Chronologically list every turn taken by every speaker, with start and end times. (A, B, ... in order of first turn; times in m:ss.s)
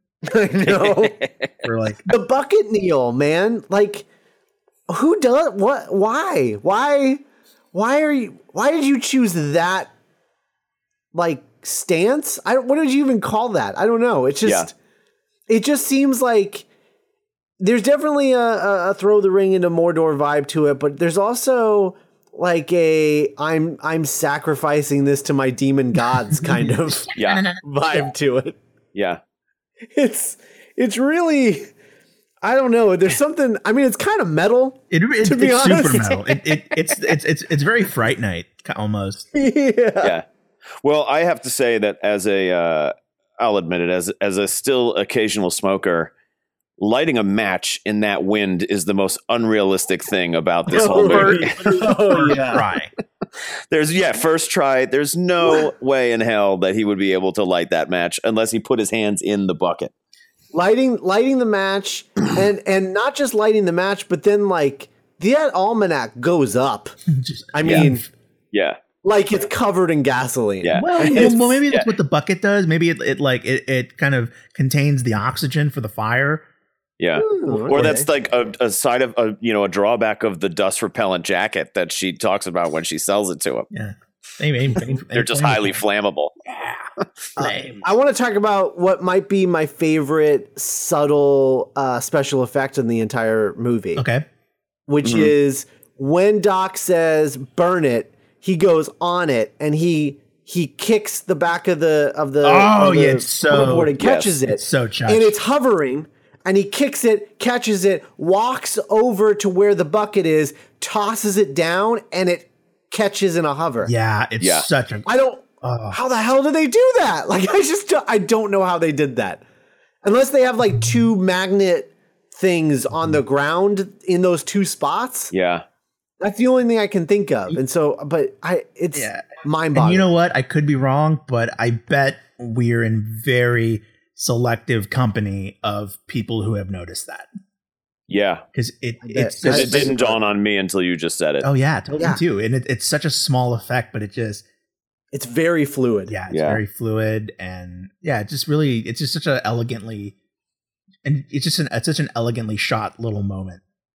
0:00.2-0:01.1 A
0:00.7-0:01.5 B
0:01.6-0:02.0 C
0:02.1-0:04.1 A
0:04.9-0:07.2 A
0:07.7-0:09.9 A
0:11.1-0:14.7 A
0:15.5-0:16.7 A
0:17.6-0:27.1 A
0:26.4-0:27.6 C
0:27.2-0:27.4 B
0:27.6-0:28.6 A
0:28.9-0:29.2 B
0:29.9-0:31.7 A
0:32.4-0:36.9 A
0:34.9-0:39.3 C
0:39.4-0:40.2 A
0:40.8-0:46.1 B
0:46.8-0:52.4 B
0:50.7-0:52.6 A
0:50.7-0:52.9 C
0:53.7-0:59.9 B
1:00.5-1:06.9 A
1:07.1-1:08.1 C
1:07.5-1:08.1 A
1:07.6-1:07.9 B
1:08.5-1:08.8 B
1:09.0-1:11.6 A
1:10.6-1:11.9 B
1:10.8-1:16.4 C
1:17.0-1:23.7 B
1:17.2-1:18.1 A
1:17.5-1:17.9 C
1:23.7-1:25.8 C
1:25.1-1:26.4 B
1:27.4-1:27.8 C
1:27.4-1:34.0 A
1:34.0-1:34.2 C
1:34.9-1:53.9 A
1:35.0-1:35.3 B
1:42.4-1:43.9 C
1:44.0-1:44.3 B
1:44.5-1:45.3 C
1:53.8-1:55.1 C
1:54.4-1:54.7 B
1:55.1-1:59.4 A
1:55.6-1:56.0 C
2:00.0-2:05.3 A
2:05.3-2:05.6 B
2:06.2-2:10.1 A
2:08.9-2:17.3 C
2:18.1-2:18.4 B
2:18.5-2:20.1 C
2:19.0-2:20.2 A
2:19.4-2:21.5 B
2:21.4-2:24.4 C
2:25.1-2:26.2 A
2:26.1-2:30.2 C
2:26.3-2:26.6 B
2:31.0-2:33.6 C